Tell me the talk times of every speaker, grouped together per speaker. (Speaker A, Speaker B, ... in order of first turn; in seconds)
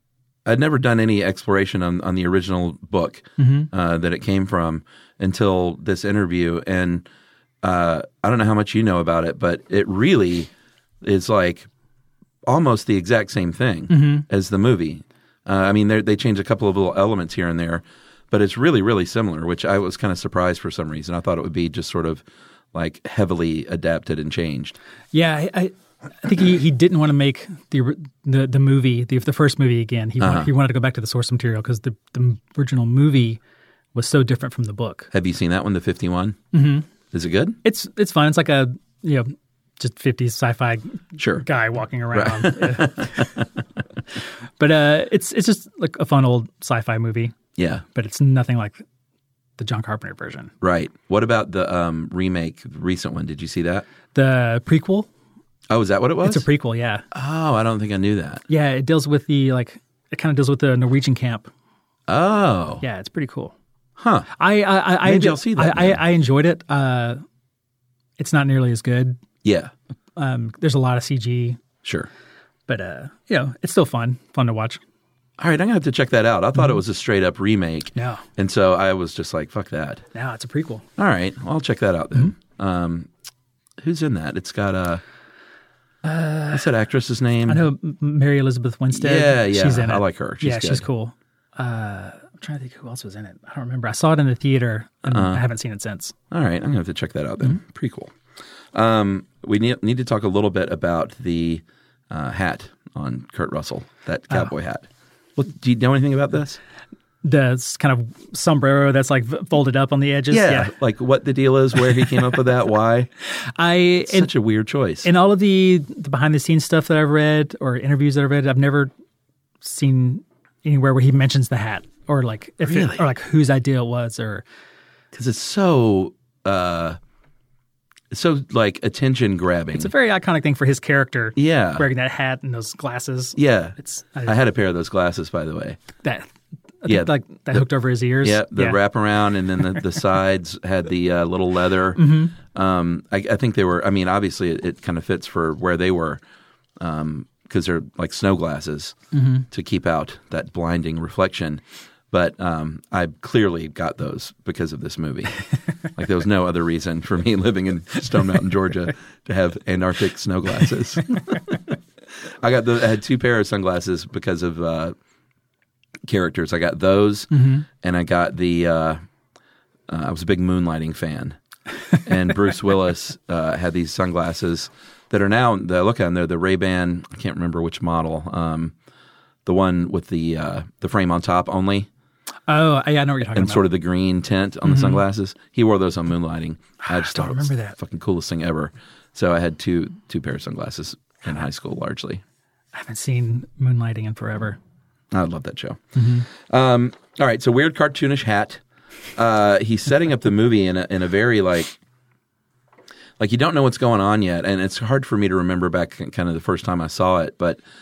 Speaker A: 0.5-7.0, 7.6-10.5, 11.0-11.7, 12.5-22.2, 22.7-24.8, 30.2-30.5, 35.1-36.5, 37.1-37.6, 41.2-41.5, 42.1-43.5, 47.6-47.8, 50.6-53.9, 55.7-56.5, 57.1-58.5, 62.1-62.8, 64.0-64.3, 65.0-66.0, 69.4-69.7, 71.8-72.1, 75.4-80.0, 81.0-83.1, 83.8-85.0, 86.5-87.7, 88.9-90.8, 95.1-95.4, 96.3-98.1, 98.7-104.8, 105.4-106.6, 110.3-113.1, 114.1-115.1, 122.7-123.0, 125.1-127.0, 128.1-129.9, 131.4-131.9, 133.4-135.8, 136.9-137.7, 138.2-146.2, 146.8-149.0, 149.5-155.4, 155.9-161.6, 162.4-164.9, 166.1-169.0, 169.9-171.4, 172.0-178.7, 179.5-181.9, 183.3-192.2, 195.1-198.6, 199.2-201.8, 203.2-207.6
Speaker B: 3.4-3.7, 13.9-14.3, 25.1-33.4, 34.0-35.1, 36.5-36.9, 37.6-43.3, 44.6-47.4, 48.0-48.8, 49.6-50.5, 54.1-55.1, 56.2-57.0, 58.5-61.5, 62.8-63.5, 64.4-67.2, 68.2-69.2, 70.2-71.6, 72.7-74.8, 78.0-78.2, 80.1-80.8, 86.0-86.7, 87.5-96.1, 107.2-110.7, 113.3-114.3, 115.0-118.9, 119.6-124.4, 129.7-134.4, 136.0-136.3, 136.8-138.8, 142.0-142.3, 149.1-149.5, 167.3-167.6, 182.5-183.6, 184.6-185.0, 186.8-187.8, 192.7-194.6, 195.9-196.2